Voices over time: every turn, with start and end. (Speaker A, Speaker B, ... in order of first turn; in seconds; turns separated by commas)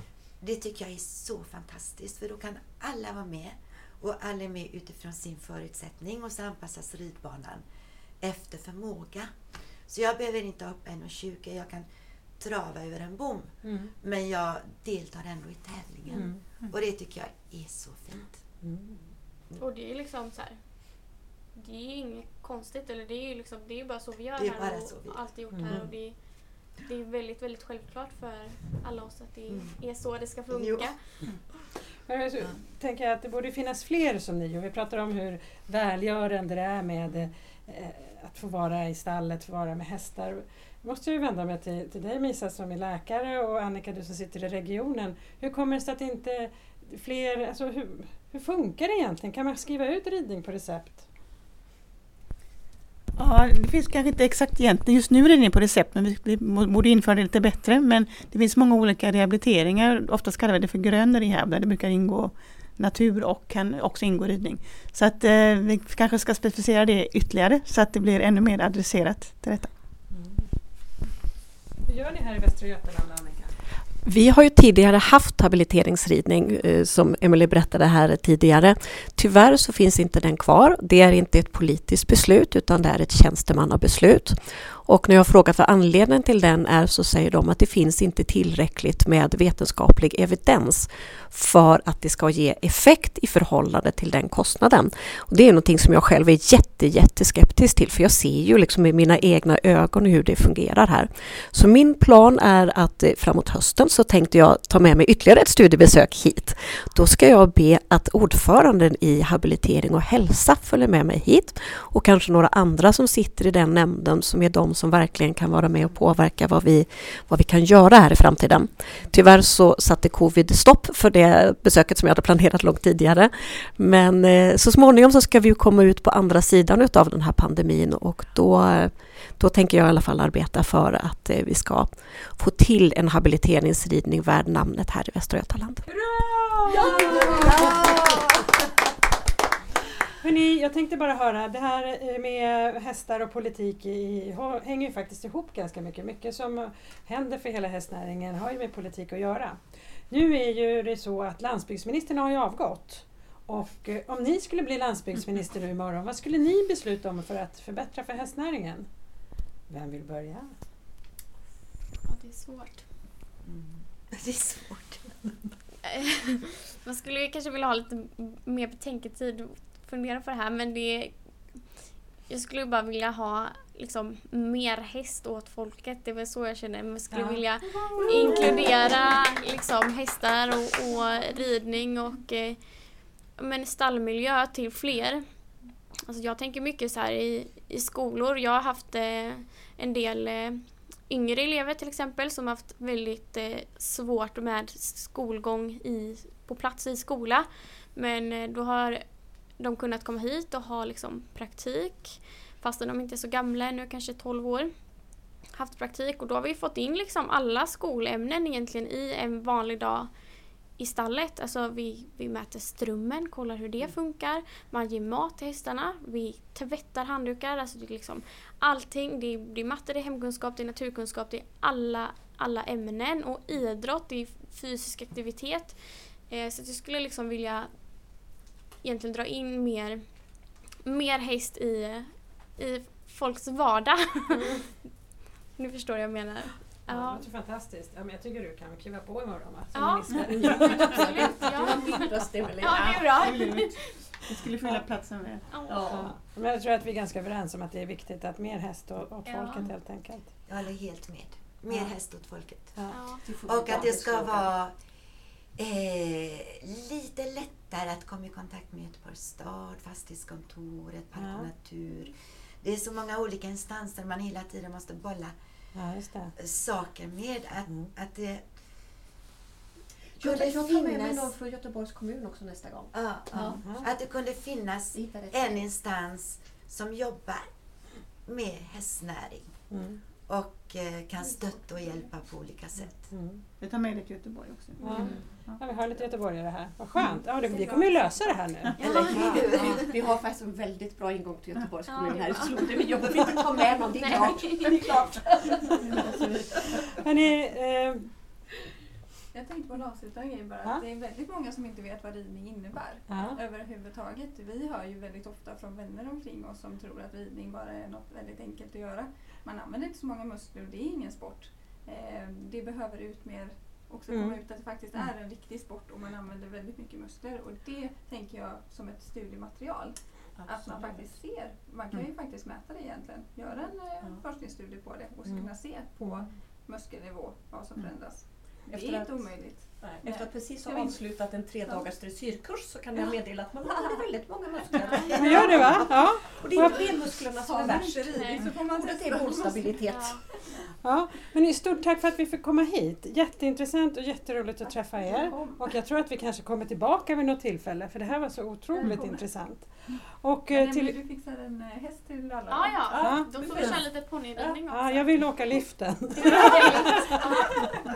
Speaker A: 0.4-7.7, Speaker A: 8.2-9.3, Speaker A: 9.9-18.4, Speaker B: 13.6-13.9, Speaker B: 16.1-16.4, Speaker B: 18.6-18.9, Speaker C: 19.6-31.0, Speaker A: 24.4-25.9, Speaker B: 25.5-25.8, Speaker A: 30.5-30.9, Speaker B: 32.1-51.1, Speaker D: 53.1-69.7, Speaker B: 70.1-70.5, Speaker B: 71.9-73.5, Speaker E: 74.0-135.8, Speaker B: 135.8-137.7, Speaker F: 136.9-137.8, Speaker A: 137.4-138.2, Speaker B: 140.2-158.9, Speaker B: 159.7-160.5, Speaker C: 162.0-162.8, Speaker A: 163.4-165.1, Speaker C: 165.8-171.6, Speaker C: 172.3-182.6, Speaker B: 177.1-178.8, Speaker C: 183.3-185.2, Speaker C: 186.1-199.0, Speaker C: 199.6-204.7, Speaker C: 205.5-210.1, Speaker C: 210.8-227.7, Speaker C: 228.8-230.0, Speaker C: 230.8-234.8, Speaker C: 235.6-237.2, Speaker B: 236.9-241.3, Speaker C: 239.7-243.9, Speaker F: 240.3-243.7, Speaker D: 243.2-245.4, Speaker C: 245.5-245.9, Speaker F: 245.6-246.1, Speaker B: 245.9-250.3, Speaker C: 249.2-249.6, Speaker A: 250.5-252.8, Speaker C: 252.9-253.2, Speaker F: 253.2-254.5, Speaker A: 253.4-254.8, Speaker A: 255.6-265.4, Speaker B: 261.2-261.5, Speaker B: 265.7-266.3, Speaker A: 266.4-268.5, Speaker F: 270.1-273.6, Speaker A: 270.2-271.3, Speaker A: 272.9-277.5, Speaker B: 273.6-273.9, Speaker F: 274.9-275.7, Speaker A: 278.2-279.5, Speaker B: 279.7-280.0, Speaker A: 280.3-283.1, Speaker B: 283.1-283.4, Speaker D: 283.6-285.6, Speaker B: 284.8-289.4, Speaker G: 284.9-285.2, Speaker G: 287.0-288.4, Speaker A: 288.8-289.8, Speaker F: 288.8-296.8, Speaker C: 288.9-289.1, Speaker C: 291.9-292.8, Speaker C: 294.0-294.9, Speaker G: 294.0-295.0, Speaker B: 297.0-298.1, Speaker G: 299.3-331.0, Speaker B: 303.1-303.4, Speaker B: 314.1-314.4, Speaker F: 320.3-321.2, Speaker F: 323.5-324.2, Speaker F: 328.6-340.3, Speaker G: 331.6-331.9, Speaker G: 333.6-334.1, Speaker G: 334.6-335.8, Speaker B: 335.2-336.8, Speaker G: 336.5-339.8, Speaker C: 338.1-338.5, Speaker C: 339.8-340.2, Speaker B: 340.8-350.9, Speaker G: 344.6-345.8, Speaker G: 348.8-349.2, Speaker G: 350.5-353.0, Speaker C: 352.5-355.2, Speaker F: 352.9-353.8, Speaker B: 353.0-353.6, Speaker B: 354.7-357.7, Speaker C: 356.1-357.6